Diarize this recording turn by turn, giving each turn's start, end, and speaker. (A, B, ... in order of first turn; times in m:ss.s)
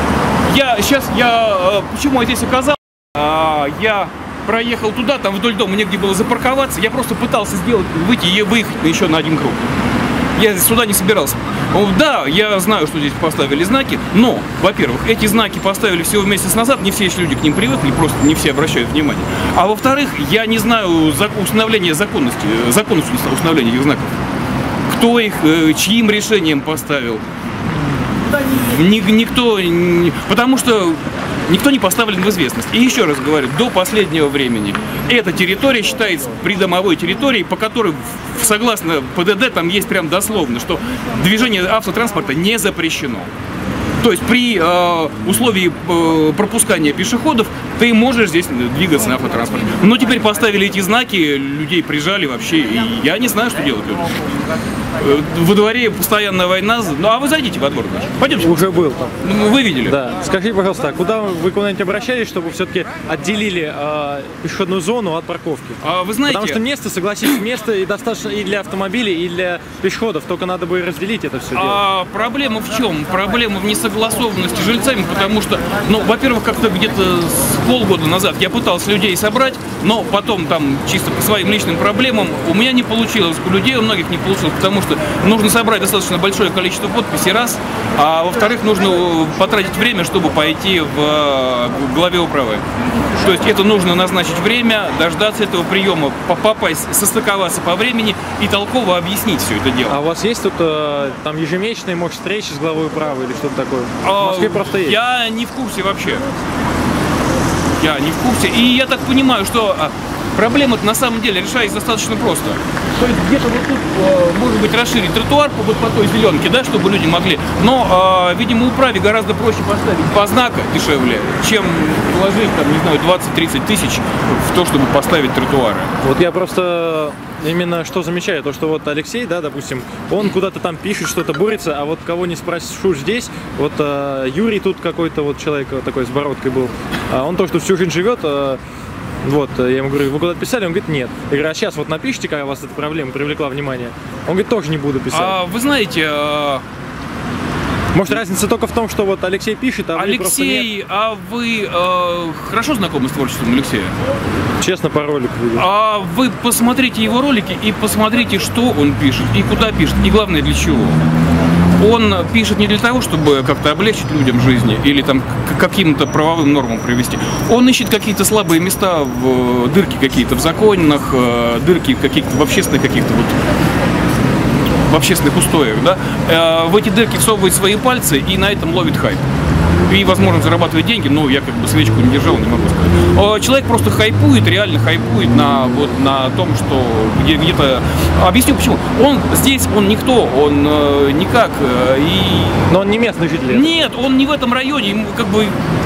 0:00.4-0:09.6 A
0:10.4-0:24.1 A
0:24.9-0:27.2 A
0:28.5-0:43.3 A
0:44.0-0:54.4 A
0:55.0-0:58.6 A
0:58.3-0:59.2 B
0:59.2-1:00.0 A
0:59.8-1:11.8 B
1:05.8-1:06.6 A
1:11.5-1:40.0 A
1:39.9-1:45.0 B
1:44.0-1:46.2 A
1:47.8-2:05.9 A
2:06.0-2:18.6 B
2:19.2-2:25.4 B
2:25.1-2:26.6 A
2:27.9-2:30.7 B
2:29.9-2:33.9 A
2:34.6-2:35.7 B
2:35.6-2:41.0 A
2:41.8-2:53.4 A
2:54.8-2:59.2 A
2:59.8-3:12.7 A
3:12.7-3:13.8 B
3:13.5-3:15.6 A